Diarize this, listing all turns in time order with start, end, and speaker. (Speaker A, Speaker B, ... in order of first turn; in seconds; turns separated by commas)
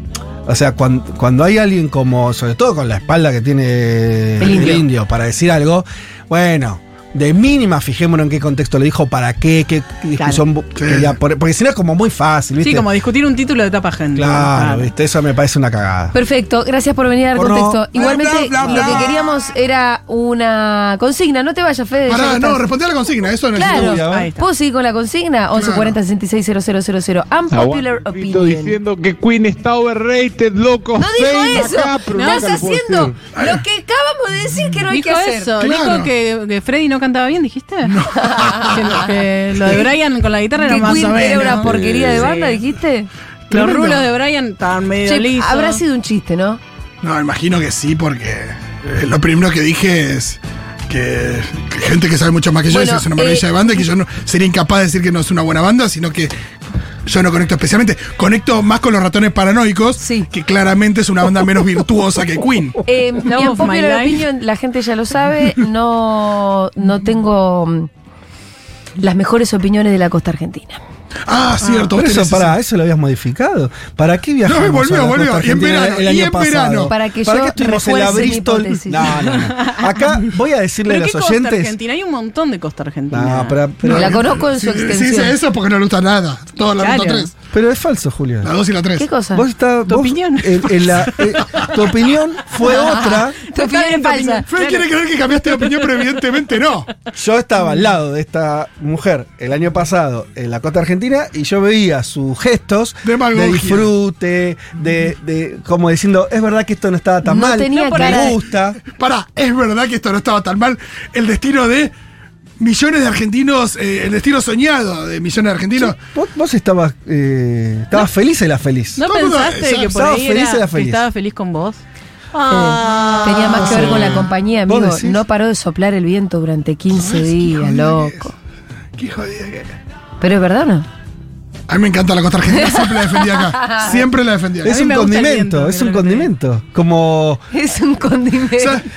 Speaker A: 0.5-12.9, Speaker B: 4.4-4.8, Speaker C: 10.8-11.1, Speaker D: 12.6-14.9, Speaker A: 14.1-16.1, Speaker B: 16.1-22.6, Speaker A: 17.3-19.1, Speaker C: 18.0-19.2, Speaker C: 22.1-24.0, Speaker B: 23.5-28.8, Speaker A: 23.6-24.3, Speaker D: 24.1-24.4, Speaker C: 25.5-25.9, Speaker E: 27.5-33.2, Speaker B: 30.9-35.5, Speaker D: 32.1-32.5, Speaker C: 33.3-33.6, Speaker D: 34.9-38.0, Speaker C: 35.6-36.1, Speaker C: 37.8-39.0, Speaker B: 38.2-38.8, Speaker D: 38.7-42.6, Speaker B: 40.6-43.1, Speaker C: 41.2-41.5, Speaker C: 43.5-44.0, Speaker D: 43.5-45.8, Speaker B: 45.0-46.6, Speaker C: 47.0-56.3, Speaker B: 52.7-53.5, Speaker C: 57.0-62.8, Speaker B: 60.0-60.3, Speaker B: 62.9-67.9, Speaker D: 63.2-64.2, Speaker B: 69.0-70.8, Speaker C: 71.3-72.5, Speaker D: 71.6-71.9, Speaker A: 71.9-81.7, Speaker C: 74.5-76.9, Speaker B: 76.9-79.2, Speaker D: 79.4-79.9, Speaker D: 80.8-83.6, Speaker A: 83.1-84.3, Speaker C: 83.8-87.3, Speaker B: 83.9-85.4, Speaker D: 86.8-87.3, Speaker A: 87.5-88.5, Speaker C: 88.4-89.1, Speaker B: 89.0-89.4, Speaker A: 89.3-93.3, Speaker D: 89.9-91.2, Speaker B: 92.6-94.4, Speaker D: 92.6-93.0, Speaker D: 93.5-94.9, Speaker C: 94.5-96.9, Speaker A: 97.1-108.8, Speaker C: 103.0-103.9, Speaker B: 107.2-108.3, Speaker D: 107.7-108.4, Speaker C: 108.9-111.9, Speaker C: 112.6-116.0, Speaker A: 115.8-119.0, Speaker D: 119.0-121.8, Speaker C: 119.1-119.9, Speaker A: 119.9-121.0, Speaker D: 122.3-124.1, Speaker B: 122.5-128.3, Speaker A: 123.6-125.2, Speaker C: 126.9-128.3, Speaker C: 129.0-129.7, Speaker B: 130.2-130.8, Speaker C: 131.7-134.7, Speaker B: 132.6-134.0, Speaker A: 134.6-137.4, Speaker D: 134.6-136.3, Speaker B: 137.5-138.8, Speaker C: 138.6-138.8